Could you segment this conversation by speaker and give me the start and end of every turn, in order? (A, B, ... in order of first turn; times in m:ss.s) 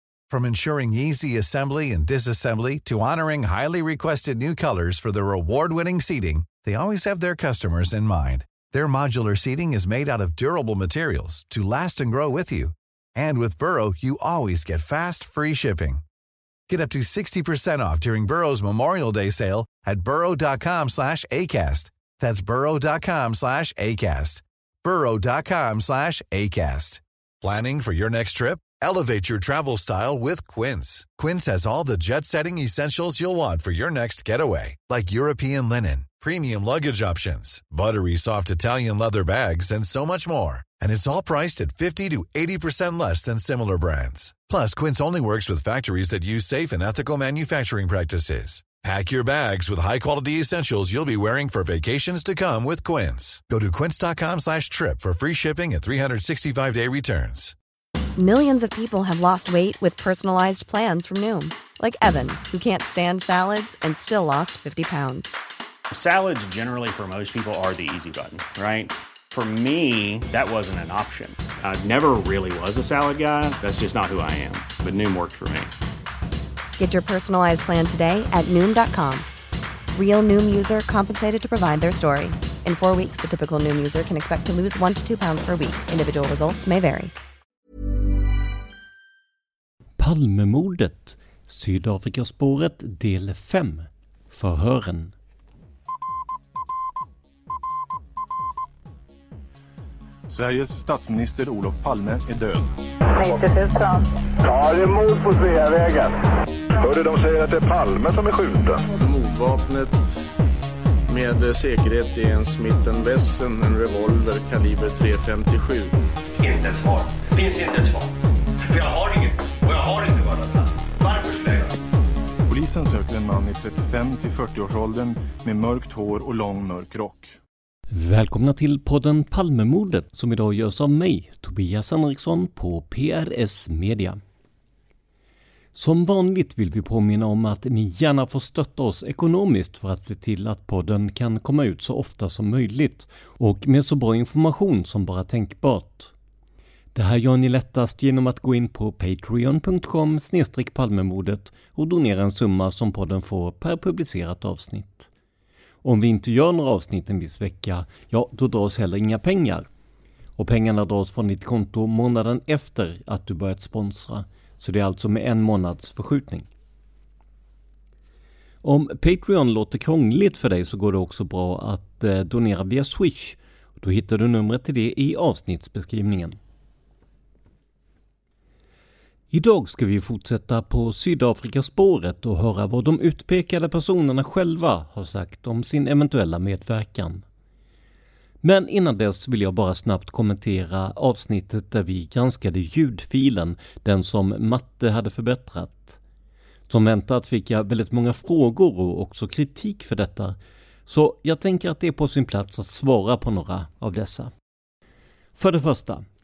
0:00.3-0:16.0 A
0:16.7-0:57.6 A
0:58.2-1:05.4 B
1:05.9-1:15.7 C
1:16.8-1:19.3 B
1:19.9-1:27.1 B
1:30.0-1:35.1 D
1:40.3-1:42.7 E
1:43.5-1:44.0 C
1:44.4-1:46.2 F
1:46.8-1:48.9 F
1:48.9-1:50.2 G
1:51.1-1:55.9 G
1:56.4-2:01.8 H
2:02.5-2:07.4 E
2:07.9-2:14.2 D
2:15.8-2:26.1 D
2:27.0-2:35.1 D
2:35.8-2:39.7 D
2:40.4-2:46.5 D
2:48.6-2:56.4 D
2:59.3-3:07.2 D
3:08.4-3:16.0 D
3:16.7-3:24.3 D
3:25.4-3:26.0 D